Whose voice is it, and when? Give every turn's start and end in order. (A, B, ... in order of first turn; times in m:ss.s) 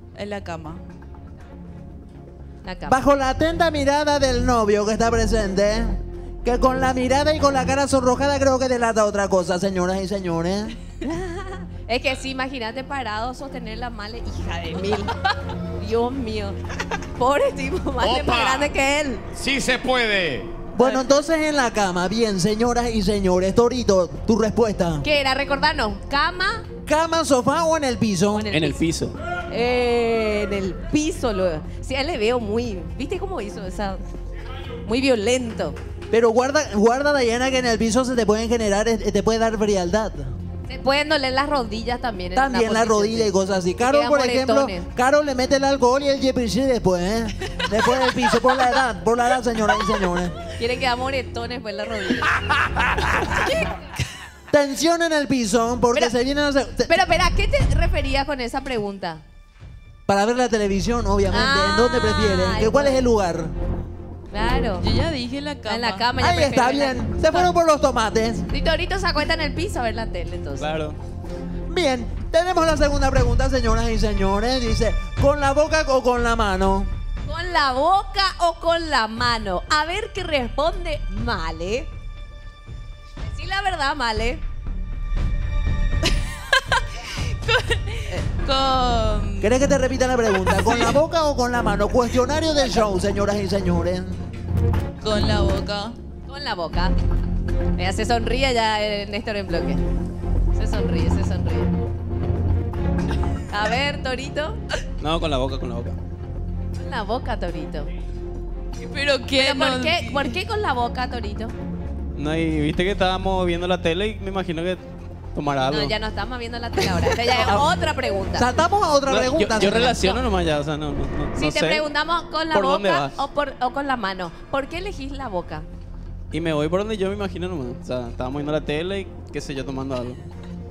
0:00.2-0:00.8 A
0:02.6-0:03.0 B
0:02.9-0:10.8 C
0:11.0-0:15.1 B
0:15.8-0:16.6 B
0:17.2-0:19.2 B
0:18.0-0:18.7 D
0:19.3-0:20.5 D
0:20.8-0:25.0 C
0:20.8-0:21.0 B
0:25.0-0:26.7 B
0:26.9-0:28.5 C
0:28.4-0:28.8 B
0:28.5-0:29.2 E
0:29.5-0:34.0 B
0:34.9-0:35.8 B
0:36.1-0:40.3 C
0:40.7-0:43.3 B
0:42.4-0:50.4 C
0:43.8-0:44.8 B
0:50.6-0:52.3 B
0:54.5-0:57.0 C
0:56.9-0:59.2 B
1:00.1-1:03.5 C
1:01.3-1:03.0 B
1:04.3-1:04.8 B
1:04.8-1:06.1 A
1:05.7-1:07.5 B
1:06.2-1:08.4 C
1:08.5-1:10.7 B
1:10.6-1:11.0 E
1:11.7-1:16.9 C
1:17.3-1:21.9 B
1:23.3-1:24.4 B
1:26.5-1:26.8 A
1:27.4-1:29.5 A
1:29.4-1:34.2 C
1:30.5-1:31.0 A
1:35.0-1:36.0 A
1:36.3-1:36.9 B
1:37.8-1:39.8 B
1:40.6-1:41.7 B
1:43.5-1:44.6 B
1:45.0-1:46.0 E
1:46.8-1:47.9 B
1:48.8-1:50.3 A
1:49.4-1:51.5 B
1:52.2-1:56.0 E
1:55.7-1:58.5 B
1:58.4-2:00.1 C
1:59.1-2:01.8 E
2:01.4-2:05.6 B
2:02.5-2:03.2 E
2:06.3-2:10.2 E